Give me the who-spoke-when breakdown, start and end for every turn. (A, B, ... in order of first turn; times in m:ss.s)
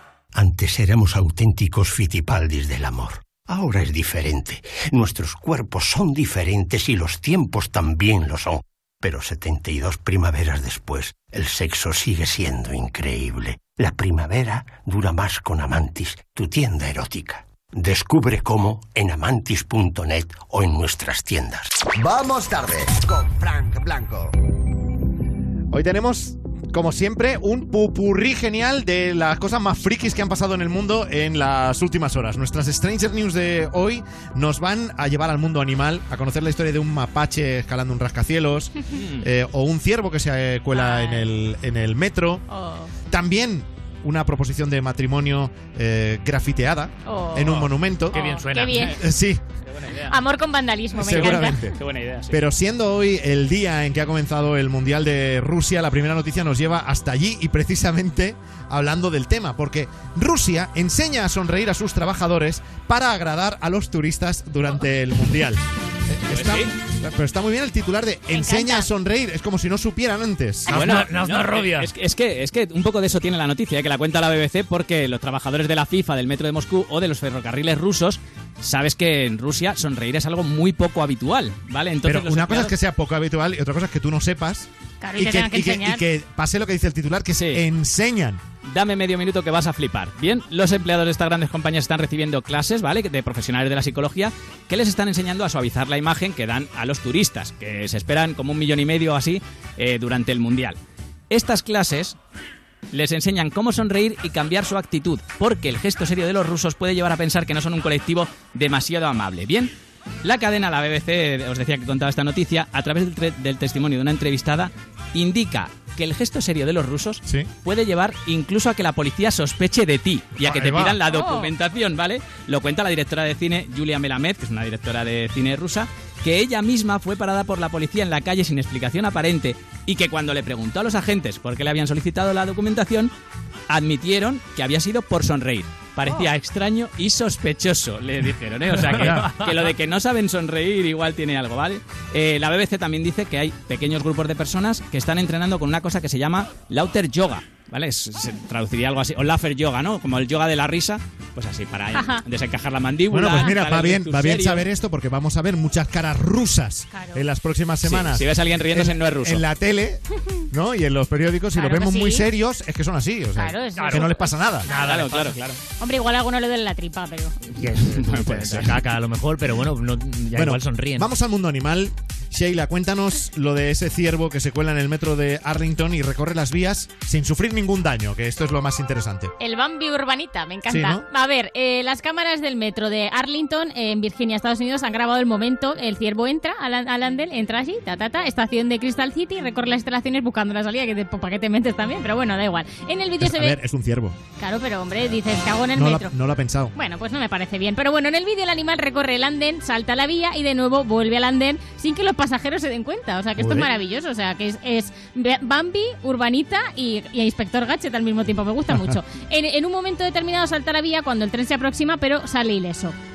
0:00.4-0:21.7 A
0:22.0-0:24.3 B
0:25.7-0:42.4 C
0:39.0-0:39.2 D
0:40.7-0:41.3 E
0:42.5-0:42.9 E
0:43.1-0:48.2 C
0:47.1-0:49.0 E
0:48.1-0:48.9 F
0:48.6-0:48.9 D
0:49.0-0:49.4 C
0:49.7-0:50.1 D
0:50.1-0:51.7 E
0:50.9-0:51.8 C
0:51.2-0:52.4 D
0:52.3-1:10.8 C
1:06.3-1:06.7 D
1:08.3-1:08.9 E
1:10.7-1:11.9 F
1:10.7-1:22.7 D
1:22.0-1:28.4 C
1:25.0-1:26.0 E
1:27.4-1:27.6 D
1:28.7-1:40.8 D
1:41.3-1:42.2 D
1:42.9-1:49.7 D
1:50.2-2:13.1 D
1:57.2-1:57.5 C
2:00.4-2:01.0 C
2:01.1-2:01.5 E
2:13.7-2:34.6 D
2:18.9-2:19.3 C
2:31.9-2:32.2 E
2:33.1-2:44.7 C
2:36.9-2:37.2 E
2:37.8-2:39.4 D
2:41.6-2:42.3 E
2:43.4-2:45.0 E
2:43.8-2:44.1 F
2:44.7-2:45.6 D
2:44.7-2:45.3 F
2:45.8-2:47.4 E
2:47.6-2:51.1 F
2:47.9-2:48.8 D
2:50.4-2:59.3 C
2:59.4-3:13.6 E
3:00.7-3:01.0 C
3:13.2-3:14.2 C
3:14.4-3:16.1 E
3:15.7-3:16.7 C
3:16.7-3:33.0 E
3:23.4-3:23.7 C